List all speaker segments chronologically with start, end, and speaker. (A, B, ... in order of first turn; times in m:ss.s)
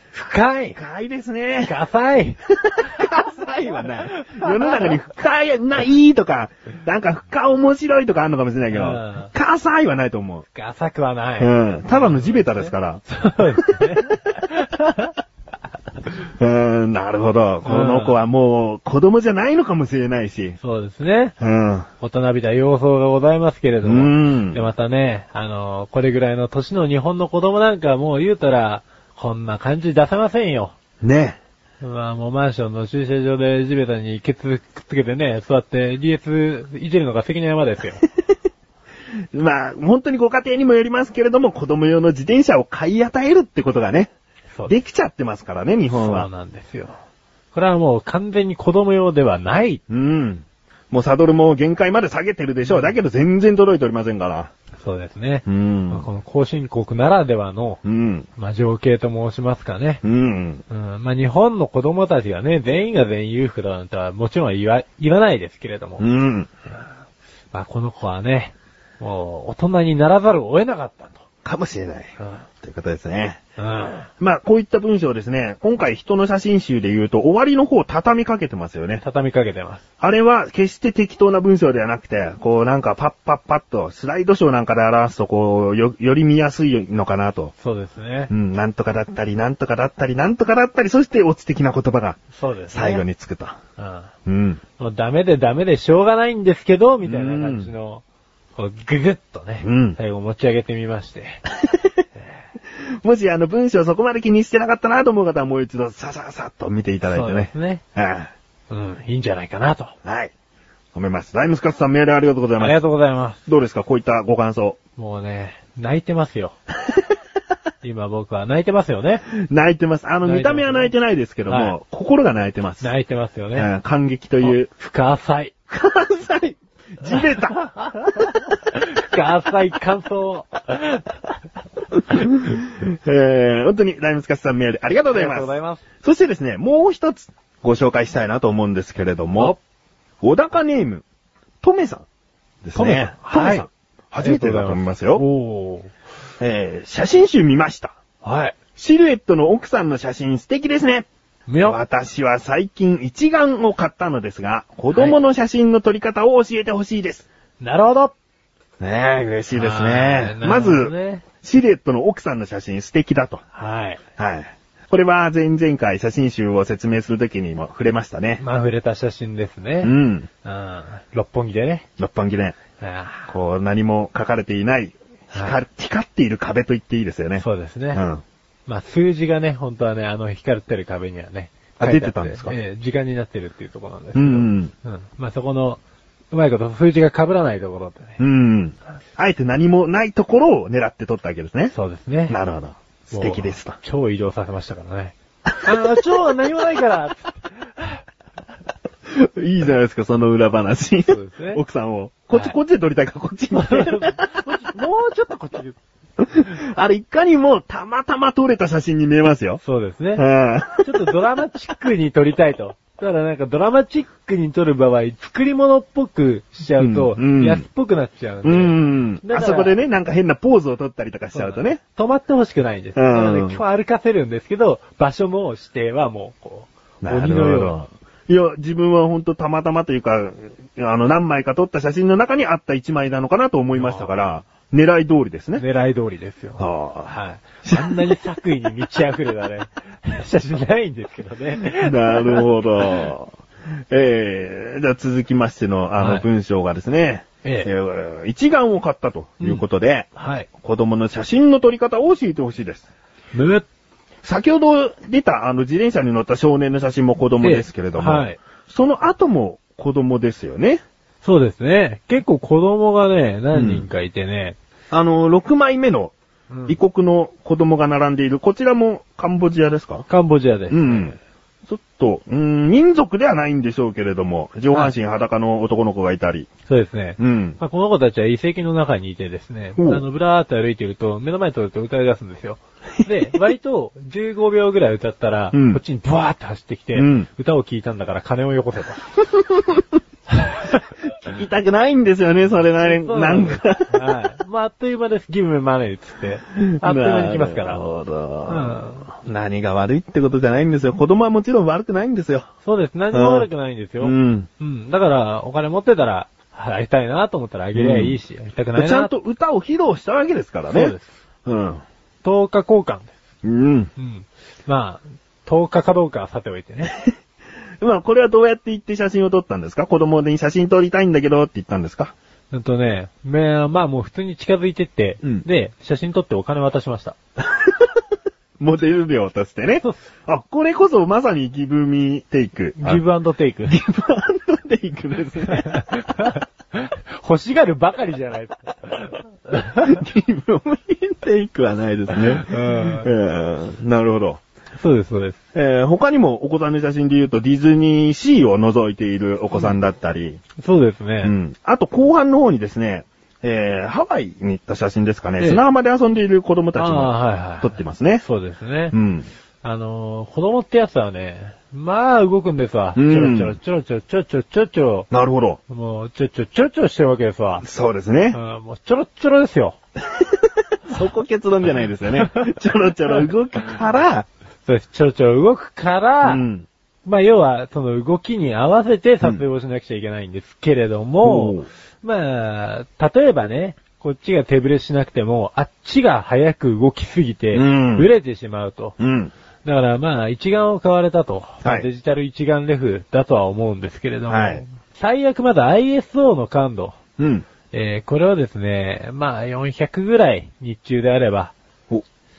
0:00.1-0:00.8 A
0:00.8-0:01.8 B
0:01.6-0:03.1 A
0:02.5-0:10.4 B
0:04.1-0:05.0 A
0:08.7-0:09.3 A
0:10.5-0:15.2 A
0:11.4-0:13.0 B
0:13.6-0:14.0 B
0:16.4-0:20.6 B
0:17.6-0:18.2 A
0:20.6-0:21.3 A
0:21.4-0:21.9 B
0:22.0-0:30.7 A
0:23.8-0:24.6 B
0:31.0-0:31.4 B
0:31.8-0:38.0 A
0:39.3-0:44.1 B
0:44.7-0:46.3 B
0:45.9-0:47.0 A
0:47.5-0:49.8 A
0:49.9-0:54.5 B
0:52.7-0:52.9 A
0:54.8-0:57.8 A
0:55.5-0:56.1 B
0:57.8-0:58.3 B
0:58.4-1:00.0 A
1:00.0-1:00.6 B
1:00.7-1:06.0 A
1:06.0-1:06.5 B
1:07.5-1:11.2 A
1:11.4-1:13.4 B
1:13.6-1:14.1 A
1:14.2-1:19.0 B
1:19.0-1:19.8 A
1:20.0-1:27.5 B
1:27.6-1:28.3 A
1:28.3-1:33.6 B
1:32.4-1:33.0 A
1:33.8-1:34.1 A
1:34.3-1:34.6 B
1:34.8-1:38.0 A
1:37.0-1:37.7 B
1:38.6-1:41.4 A
1:39.6-1:40.0 B
1:41.6-1:41.9 B
1:42.7-1:48.3 B
1:47.1-1:47.8 A
1:48.7-1:50.0 A
1:50.0-1:50.3 B
1:50.9-1:52.8 B
1:52.6-1:53.4 A
1:53.5-1:54.8 B
1:55.0-1:56.6 A
1:57.8-1:59.3 A
1:59.3-2:02.9 B
2:00.2-2:00.9 A
2:01.5-2:01.8 A
2:02.8-2:03.7 A
2:03.6-2:04.7 B
2:04.4-2:05.5 A
2:05.7-2:07.6 B
2:07.1-2:11.4 A
2:12.1-2:19.6 B
2:15.1-2:15.8 A
2:20.2-2:21.0 B
2:21.6-2:22.0 B
2:22.6-2:25.2 B
2:22.8-2:23.7 A
2:24.2-2:25.9 A
2:26.4-2:31.1 B
2:28.2-2:28.6 A
2:31.5-2:31.8 A
2:31.6-2:37.3 B
2:34.9-2:35.2 A
2:37.6-2:38.1 A
2:38.8-2:43.4 B
2:39.5-2:41.2 A
2:43.6-2:44.0 A
2:44.2-2:48.4 B
2:48.4-2:51.8 A
2:49.8-2:50.3 B
2:52.0-2:52.6 B
2:52.8-2:53.3 A
2:53.3-2:58.2 B
2:55.3-2:55.6 A
2:57.4-2:58.0 A
2:58.7-3:05.8 A
3:01.8-3:02.6 B
3:04.1-3:04.7 B
3:06.3-3:08.2 A
3:08.2-3:11.7 B
3:11.7-3:12.4 A
3:12.3-3:13.8 B
3:13.1-3:18.0 A
3:19.1-3:24.3 B
3:21.1-3:21.6 A
3:23.5-3:25.8 A
3:26.2-3:29.6 B
3:29.6-3:30.2 A
3:30.2-3:31.2 B
3:30.8-3:39.8 A
3:36.8-3:37.6 B
3:38.4-3:41.8 B
3:41.3-3:47.8 A
3:43.0-3:43.6 B
3:47.0-3:55.6 B
3:53.8-3:54.1 A
3:55.6-4:02.5 A
3:56.6-3:57.1 B
3:57.6-3:58.2 B
4:01.6-4:03.3 B
4:03.9-4:12.9 B
4:06.0-4:06.3 A
4:07.4-4:07.7 A
4:10.2-4:10.5 A
4:13.3-4:13.7 A
4:14.2-4:20.8 B
4:17.4-4:18.4 A
4:21.2-4:24.6 A
4:23.5-4:23.8 B
4:24.9-4:26.1 B
4:26.5-4:26.8 A
4:26.7-4:30.1 B
4:30.1-4:31.2 A
4:30.7-4:31.2 B
4:31.7-4:36.5 B
4:36.7-4:49.1 A
4:37.2-4:37.6 B
4:39.8-4:40.0 B
4:45.5-4:45.8 B
4:47.0-4:47.3 B
4:49.3-4:49.8 B
4:50.3-4:50.7 A
4:51.0-4:54.1 B
4:52.8-4:57.8 A
4:56.6-5:02.5 B
4:58.5-4:59.1 A
5:02.6-5:09.1 A
5:03.1-5:03.5 B
5:04.0-5:04.5 B
5:07.8-5:08.2 B
5:08.8-5:10.9 B
5:10.7-5:11.2 A
5:11.4-5:11.8 B
5:12.2-5:13.2 A
5:13.4-5:13.9 B
5:14.0-5:17.0 A
5:17.8-5:22.1 B
5:22.5-5:27.2 A
5:27.4-5:27.9 B
5:28.6-5:33.0 B
5:32.8-5:33.8 A
5:33.7-5:35.9 B
5:35.5-5:40.0 A
5:39.5-5:44.4 B
5:42.2-5:43.1 A
5:44.8-5:45.4 A
5:45.5-5:50.4 B
5:50.6-5:51.3 A
5:51.2-5:58.2 B
5:56.8-5:59.0 A
5:58.9-5:59.3 B
5:59.6-6:05.1 A
6:03.0-6:03.6 B
6:05.1-6:05.6 B
6:05.7-6:07.6 A
6:07.6-6:08.4 B
6:08.3-6:09.8 A
6:10.9-6:14.3 B
6:12.2-6:12.5 A
6:14.6-6:16.4 A
6:16.2-6:16.7 B
6:17.0-6:29.0 A
6:21.2-6:21.7 B
6:27.5-6:28.1 B
6:29.0-6:29.3 B
6:29.6-6:37.0 A
6:34.3-6:34.6 B
6:37.2-6:37.4 B
6:37.7-6:41.5 A